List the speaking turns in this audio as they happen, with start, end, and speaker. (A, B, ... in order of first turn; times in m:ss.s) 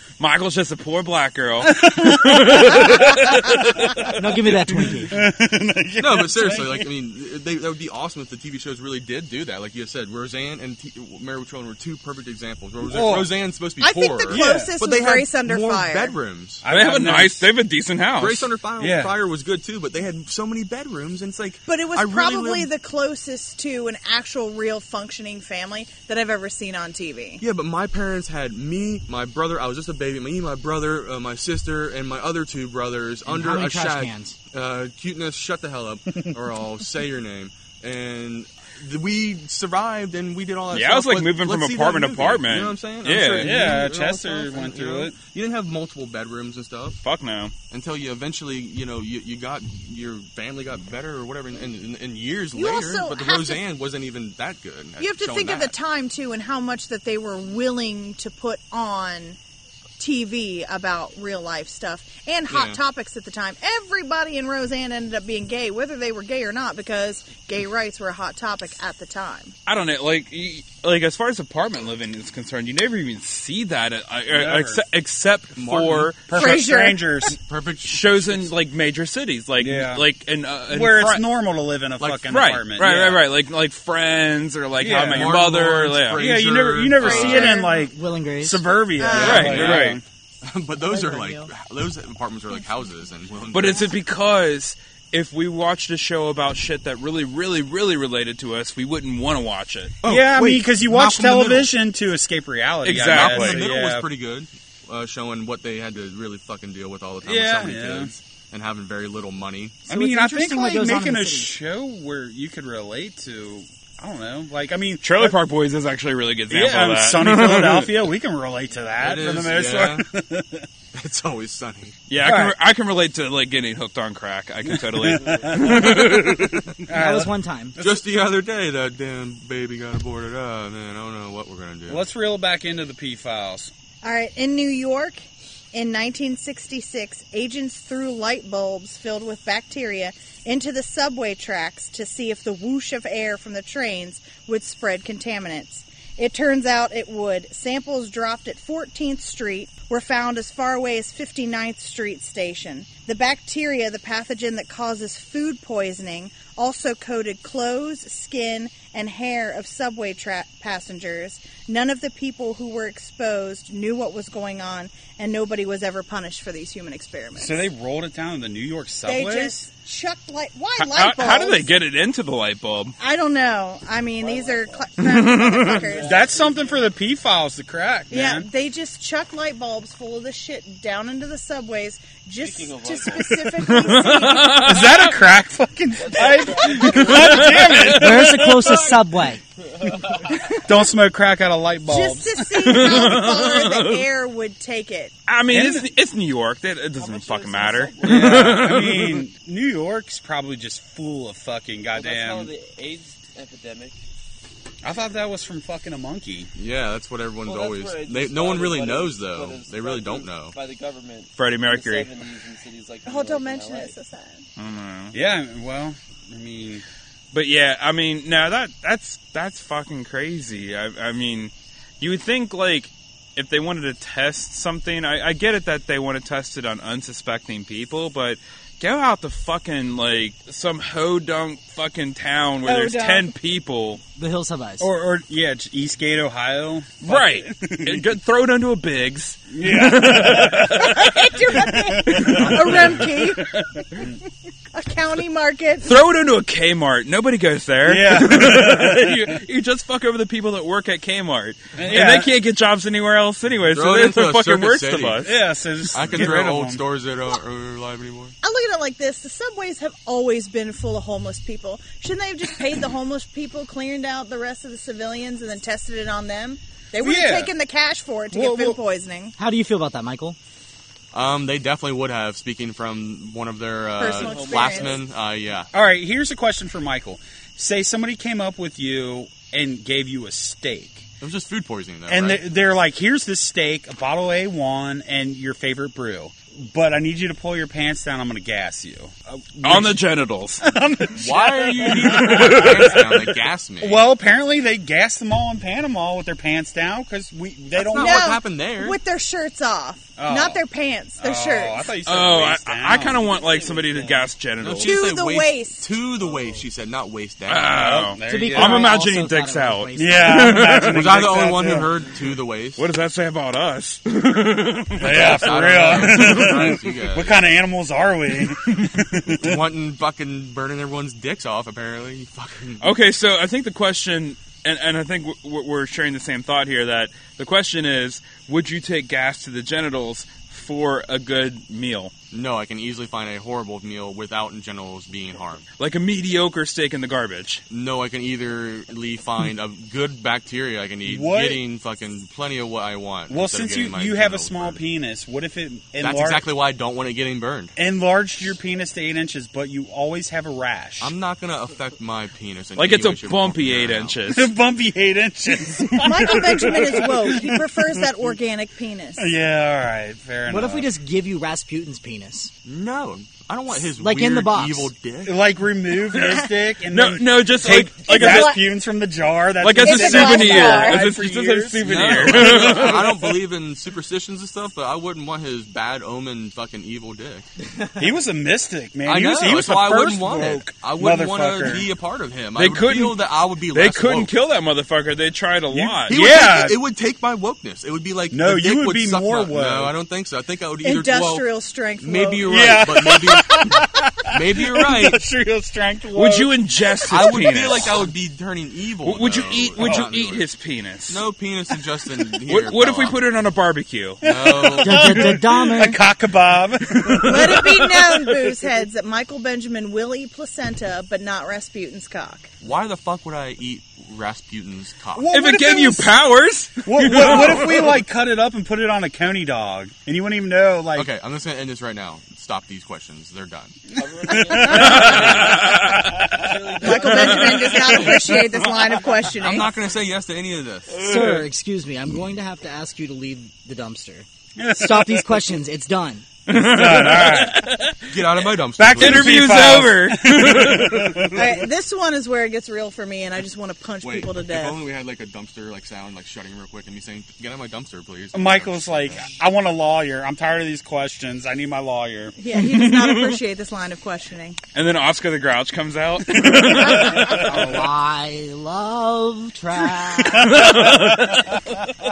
0:00.2-0:04.6 A
0:01.7-0:06.9 B
0:04.1-0:05.2 C
0:06.0-0:16.6 D
0:12.8-0:13.3 B
0:13.8-0:16.1 E
0:14.3-0:14.7 B
0:16.6-0:17.4 B
0:16.7-0:18.5 A
0:18.2-0:22.7 D
0:18.8-0:19.1 B
0:21.7-0:27.4 E
0:27.4-0:47.0 D
0:33.3-0:34.4 C
0:40.7-0:43.8 A
0:43.4-0:45.2 B
0:47.0-0:47.5 A
0:47.7-0:55.7 D
0:52.5-0:53.6 E
0:55.0-0:59.4 E
1:00.0-1:09.6 E
1:02.5-1:02.8 D
1:09.6-1:16.6 A
1:14.3-1:14.8 B
1:15.6-1:16.2 D
1:16.3-1:17.4 B
1:16.3-1:17.1 E
1:17.2-1:18.5 D
1:17.8-1:21.2 A
1:19.6-1:20.1 B
1:20.7-1:23.2 B
1:22.0-1:22.3 D
1:22.3-1:26.2 A
1:24.8-1:25.4 B
1:24.8-1:27.6 D
1:26.1-1:30.0 B
1:27.0-1:27.8 E
1:27.2-1:28.8 C
1:29.0-1:29.6 E
1:29.1-1:34.0 D
1:29.2-1:30.0 A
1:30.8-1:31.5 C
1:33.5-1:39.9 A
1:40.0-1:41.7 D
1:40.0-1:44.1 B
1:42.8-1:43.6 A
1:42.9-1:49.8 D
1:47.2-1:48.1 B
1:49.9-1:51.5 C
1:49.9-1:55.4 B
1:55.0-1:57.9 A
1:56.5-2:00.7 B
1:59.0-2:00.1 D
2:00.9-2:02.0 D
2:02.1-2:06.7 A
2:02.2-2:02.6 B
2:04.6-2:07.3 B
2:06.9-2:07.7 C
2:07.8-2:12.0 D
2:11.9-2:13.7 B
2:14.0-2:47.6 E
2:47.4-2:49.6 B
2:49.0-2:51.7 E
2:50.8-2:53.0 A
2:53.0-2:56.2 E
2:54.2-2:56.9 F
2:55.0-2:55.9 A
2:56.0-2:58.5 B
2:58.1-3:04.7 E
3:02.4-3:04.2 F
3:03.6-3:05.2 A
3:04.4-3:08.8 B
3:06.0-3:07.9 F
3:06.7-3:08.8 A
3:07.9-3:09.4 C
3:09.6-3:10.5 F
3:10.5-3:13.2 B
3:11.9-3:15.1 E
3:12.6-3:14.0 A
3:15.3-3:19.2 A
3:15.5-3:15.9 B
3:16.9-3:18.9 F
3:18.0-3:22.5 B
3:21.9-3:24.0 F
3:24.8-3:26.5 B
3:26.5-3:30.6 D
3:27.4-3:33.9 F
3:31.4-3:32.1 A
3:33.0-3:34.4 E
3:34.6-3:35.1 A
3:35.1-3:36.8 B
3:37.3-3:54.0 A
3:52.6-3:53.3 E
3:54.2-3:54.9 C
3:54.8-3:58.0 B
3:57.0-4:01.0 A
3:59.5-4:03.1 B
4:00.8-4:03.6 E
4:02.1-4:03.1 A
4:04.7-4:05.9 E
4:05.8-4:15.4 A
4:07.8-4:09.4 B
4:11.8-4:12.3 B
4:13.7-4:15.2 D
4:15.2-4:16.8 B
4:15.9-4:18.3 D
4:18.4-4:29.3 E
4:27.0-4:27.5 B
4:28.3-4:28.8 B
4:29.4-4:30.4 C
4:31.1-4:35.7 D
4:34.0-4:35.0 E
4:34.1-4:35.0 F
4:35.7-4:41.0 B
4:41.2-4:42.4 D
4:42.1-4:50.0 B
4:49.6-4:50.6 A
4:50.6-4:58.3 B
4:51.2-4:54.0 D
4:51.8-4:53.0 A
4:57.7-4:59.0 D
4:57.9-5:01.9 E
5:00.2-5:00.6 B
5:01.2-5:03.3 B
5:02.0-5:05.0 A
5:03.0-5:04.3 F
5:04.6-5:08.1 D
5:04.8-5:05.8 E
5:06.3-5:06.6 F
5:07.5-5:11.2 A
5:08.0-5:08.9 B
5:08.3-5:10.6 C
5:10.0-5:11.9 B
5:10.8-5:12.8 D
5:12.8-5:16.7 A
5:15.0-5:19.6 B
5:15.0-5:17.4 D
5:19.2-5:22.9 D
5:22.8-5:32.1 A
5:32.3-5:35.6 D
5:35.8-5:37.6 A
5:37.7-5:44.8 D
5:41.0-5:41.6 B
5:43.3-5:46.4 B
5:46.0-5:47.7 D
5:47.8-5:51.1 B
5:51.0-5:54.2 D
5:52.8-5:54.5 A
5:54.3-5:58.2 B
5:56.0-5:59.3 E
5:59.2-6:00.9 B
6:00.5-6:02.5 C
6:02.6-6:05.4 D
6:03.9-6:04.9 C
6:05.2-6:13.3 B
6:06.9-6:08.6 A
6:08.0-6:08.6 E
6:09.6-6:13.4 A
6:09.8-6:11.1 E
6:11.8-6:17.4 D
6:18.0-6:21.8 B
6:19.1-6:24.3 D
6:22.6-6:23.2 A
6:23.7-6:26.7 A
6:25.7-6:26.8 B
6:26.1-6:31.5 D
6:28.3-6:29.9 B
6:30.8-6:32.9 E
6:32.0-6:35.2 D
6:32.4-6:38.0 B
6:36.1-6:38.1 A
6:37.1-6:40.5 D
6:39.0-6:41.2 A
6:39.8-6:40.1 B
6:41.1-6:43.2 D
6:42.4-6:44.6 A
6:44.2-6:45.4 D
6:44.2-6:47.9 B
6:44.8-6:46.0 C
6:47.2-6:52.5 E
6:52.6-6:55.3 D
6:55.1-6:56.1 B
6:55.3-6:58.0 A
6:56.8-7:01.1 B
6:57.2-6:57.5 D
7:00.9-7:03.8 D
7:03.9-7:08.4 F
7:04.5-7:06.2 B
7:04.6-7:06.4 A
7:04.9-7:05.5 D
7:06.8-7:09.7 E
7:09.3-7:11.0 D
7:10.9-7:16.3 C
7:14.6-7:15.4 B
7:16.5-7:18.1 A
7:16.5-7:17.6 B
7:18.1-7:19.8 D
7:18.8-7:21.6 B
7:18.9-7:21.4 A
7:21.3-7:24.8 E
7:24.0-7:29.3 D
7:28.3-7:32.3 B
7:32.4-7:34.6 E
7:32.6-7:33.4 A
7:34.7-7:37.6 A
7:36.2-7:37.9 B
7:37.1-7:40.7 C
7:40.1-7:41.5 B
7:40.4-7:41.5 A